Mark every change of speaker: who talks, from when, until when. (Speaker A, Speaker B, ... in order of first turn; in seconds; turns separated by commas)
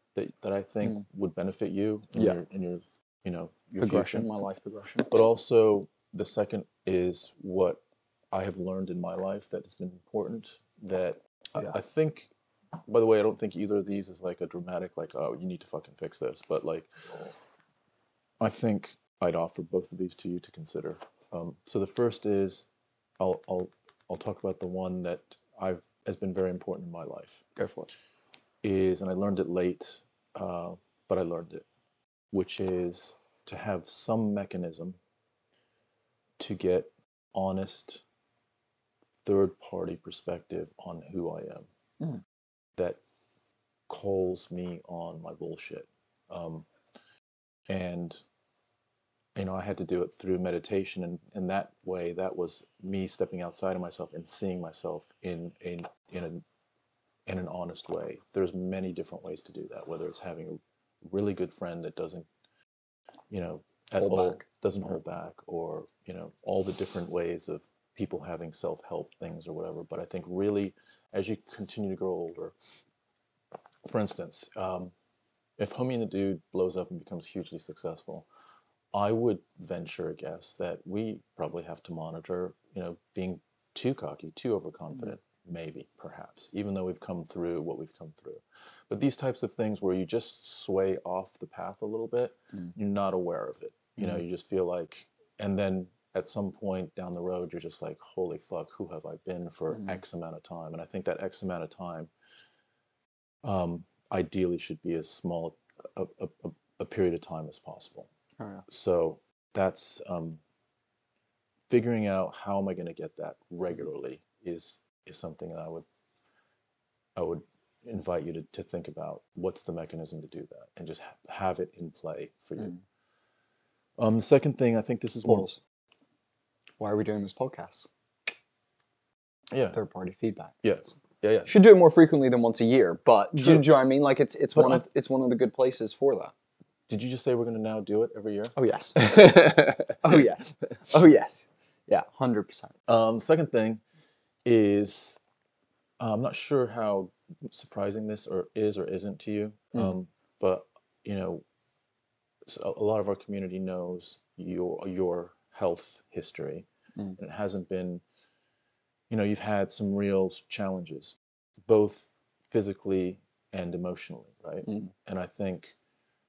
Speaker A: 0.1-4.3, Speaker B: 2.1-2.4, Speaker B: 3.8-5.1, Speaker A: 5.1-12.3, Speaker A: 12.9-17.1, Speaker A: 18.4-22.7, Speaker A: 23.2-27.4, Speaker B: 27.6-27.9, Speaker A: 28.6-31.6, Speaker A: 32.3-35.0, Speaker A: 36.4-38.0, Speaker A: 39.2-41.7, Speaker A: 43.9-46.7, Speaker A: 47.7-48.2, Speaker A: 49.3-56.4, Speaker A: 57.3-62.3, Speaker A: 63.3-72.5, Speaker B: 64.0-64.4, Speaker A: 73.8-74.9, Speaker A: 75.6-78.3, Speaker A: 78.9-102.1, Speaker A: 103.4-108.1, Speaker B: 108.4-108.6, Speaker A: 108.7-110.4, Speaker A: 111.7-115.8, Speaker A: 117.2-122.8, Speaker A: 124.0-125.5, Speaker B: 125.2-125.6, Speaker B: 126.8-127.9, Speaker A: 129.5-129.8, Speaker B: 129.7-130.6, Speaker A: 130.6-131.5, Speaker B: 131.4-136.3, Speaker A: 133.4-133.6, Speaker A: 134.6-134.8, Speaker A: 136.9-140.3, Speaker B: 138.6-139.1, Speaker B: 140.0-142.7, Speaker A: 142.9-143.8, Speaker A: 144.4-145.2, Speaker A: 146.0-151.4, Speaker A: 152.4-156.7, Speaker A: 157.2-158.0, Speaker A: 159.1-165.8